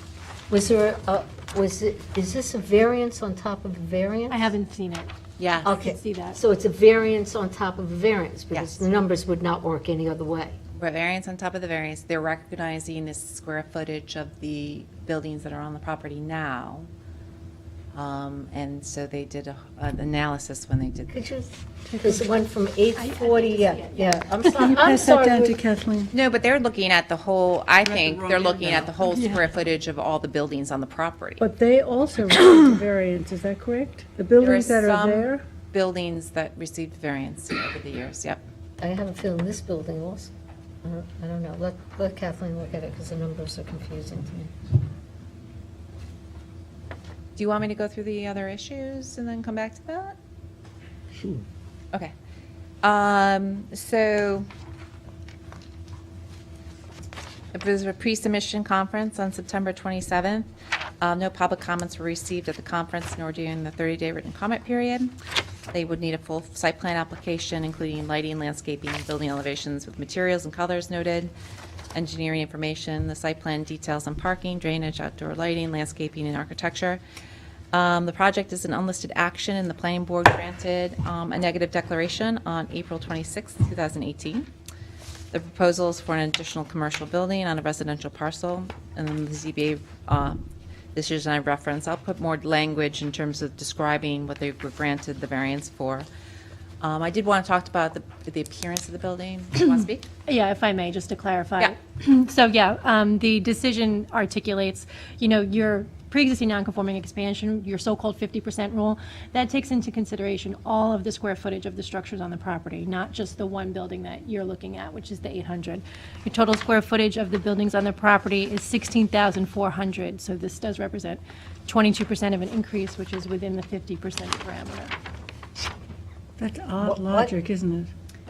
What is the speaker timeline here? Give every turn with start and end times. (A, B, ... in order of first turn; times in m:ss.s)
0:00.5-0:04.5 A
0:04.3-0:06.4 B
0:05.4-0:05.7 C
0:05.6-0:10.6 A
0:08.5-0:08.9 C
0:10.8-0:16.9 C
0:17.9-0:21.2 C
0:21.1-0:25.6 A
0:21.9-0:22.3 D
0:22.9-0:24.7 B
0:24.5-0:26.1 D
0:26.1-0:31.4 C
0:31.4-0:35.4 D
0:34.4-0:38.4 C
0:38.8-0:40.3 A
0:40.8-0:44.5 A
0:47.4-0:50.2 C
0:52.8-0:54.4 C
0:57.5-1:00.4 C
1:01.0-1:05.1 C
1:05.7-1:11.3 C
1:11.9-1:17.0 C
1:17.7-1:24.5 C
1:25.3-1:30.4 C
1:30.9-1:36.1 C
1:36.8-1:40.1 C
1:40.3-2:04.9 B
2:06.4-2:07.9 D
2:06.8-2:07.3 A